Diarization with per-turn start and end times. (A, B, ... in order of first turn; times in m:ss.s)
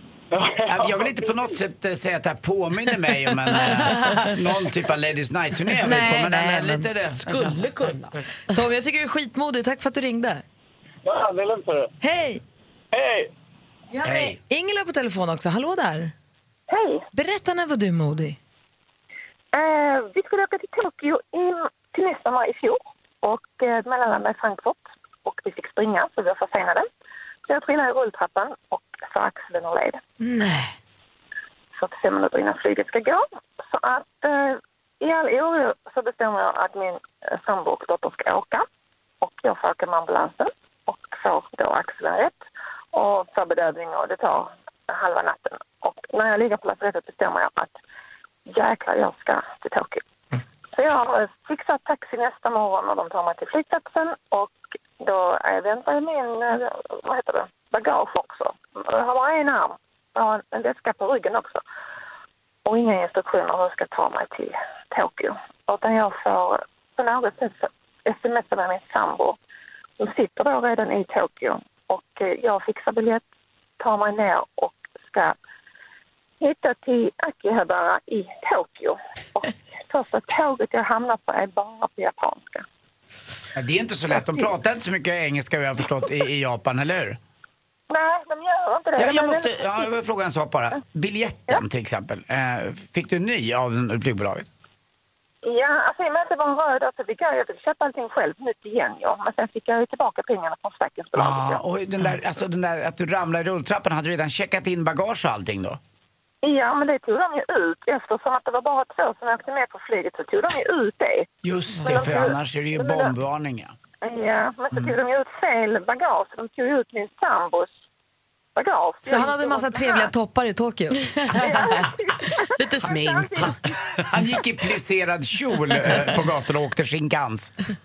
0:00.3-0:01.5 A
0:00.7-0:08.2 B
0:03.6-0:04.3 C
0:05.8-0:08.1 C
0:08.5-0:10.4 D
0:11.0-0:11.9 A
0:12.0-0:12.4 D
0:12.9-0:13.3 A
0:13.9-0:16.1 D
0:14.0-0:14.4 B
0:16.7-0:17.0 E
0:17.1-0:18.4 D
0:19.5-0:26.9 E
0:27.5-0:30.0 E
0:30.2-0:30.7 C
0:31.8-0:38.6 E
0:39.2-0:42.4 E
0:42.9-0:47.7 E
0:48.5-0:50.0 E
0:50.7-1:01.6 E
1:02.6-1:09.4 E
1:10.0-1:13.2 E
1:13.8-1:15.4 E
1:16.4-1:22.6 E
1:23.6-1:27.2 B
1:27.9-1:29.8 E
1:29.0-1:34.5 B
1:35.4-1:41.6 E
1:41.2-1:45.8 B
1:46.4-1:53.1 E
1:51.4-1:53.7 B
1:51.8-1:52.1 D
1:54.0-1:57.7 E
1:58.6-2:00.1 E
1:59.0-2:01.0 D
2:01.0-2:01.9 C
2:01.3-2:03.8 E
2:02.6-2:03.6 C
2:04.1-2:07.6 B